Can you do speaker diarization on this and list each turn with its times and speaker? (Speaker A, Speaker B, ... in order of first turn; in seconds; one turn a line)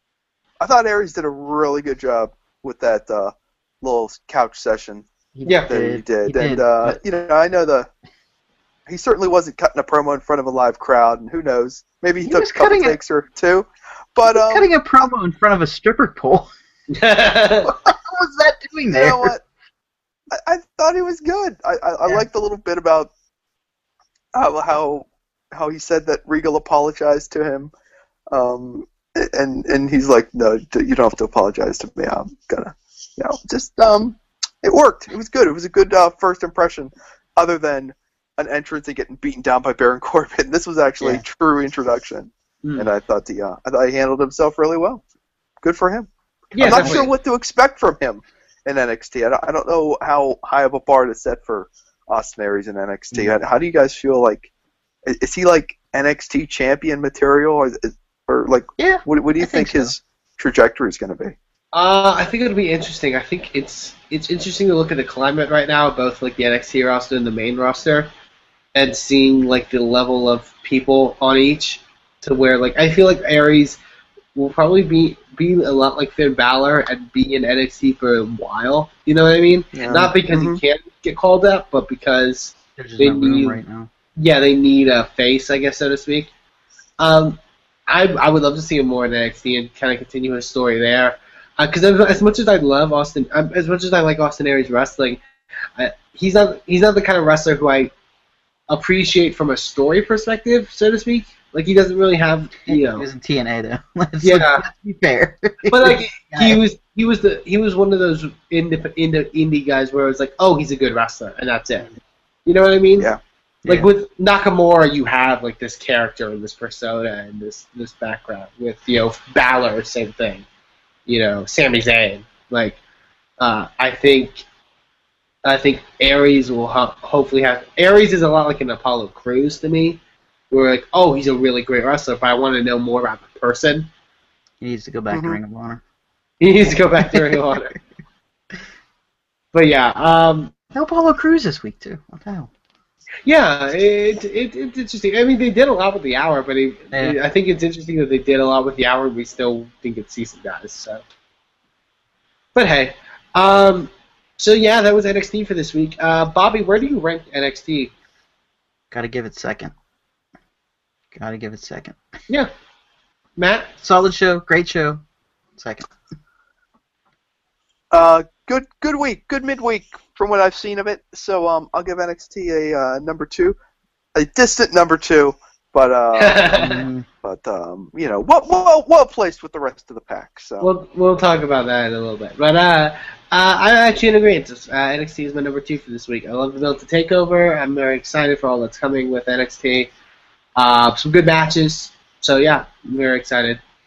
Speaker A: 0.6-5.1
Speaker B: 5.3-7.0
Speaker C: 5.5-5.7
Speaker A: 5.7-7.9
Speaker A: 8.9-14.7
Speaker B: 12.2-13.0
Speaker B: 14.3-16.5
Speaker C: 16.9-17.7
Speaker A: 17.7-17.9
Speaker B: 17.9-19.3
Speaker A: 19.0-19.4
Speaker A: 20.3-23.1
Speaker A: 24.3-27.7
Speaker A: 28.3-45.0
Speaker C: 42.6-42.9
Speaker A: 45.6-54.5
Speaker C: 46.5-47.1
Speaker B: 46.6-47.0
Speaker A: 55.0-61.3
Speaker B: 58.8-59.9
Speaker C: 61.7-68.1
Speaker C: 68.7-73.8
Speaker C: 74.3-83.6
Speaker A: 79.7-80.6
Speaker B: 82.8-83.9
Speaker C: 84.2-86.3
Speaker C: 87.0-95.2
Speaker C: 95.8-97.9
Speaker C: 98.7-103.0
Speaker B: 102.7-106.6
Speaker C: 104.2-104.6
Speaker C: 105.7-111.9
Speaker C: 112.5-113.1
Speaker C: 113.7-120.5
Speaker C: 121.1-122.8
Speaker C: 123.4-124.4
Speaker C: 125.4-130.0
Speaker C: 130.5-133.9
Speaker B: 134.6-135.8
Speaker A: 135.1-135.4
Speaker C: 136.4-137.8
Speaker B: 137.1-137.4
Speaker C: 139.5-140.5
Speaker B: 140.7-142.5
Speaker C: 143.2-151.0
Speaker C: 152.5-157.9
Speaker B: 158.9-159.7
Speaker B: 161.1-162.0
Speaker C: 163.4-163.7
Speaker B: 163.8-165.0
Speaker B: 165.6-165.9
Speaker A: 167.9-173.6
Speaker A: 174.1-176.5
Speaker C: 176.2-176.9
Speaker B: 176.6-177.1
Speaker A: 177.2-180.7
Speaker C: 180.6-189.9
Speaker C: 190.6-193.6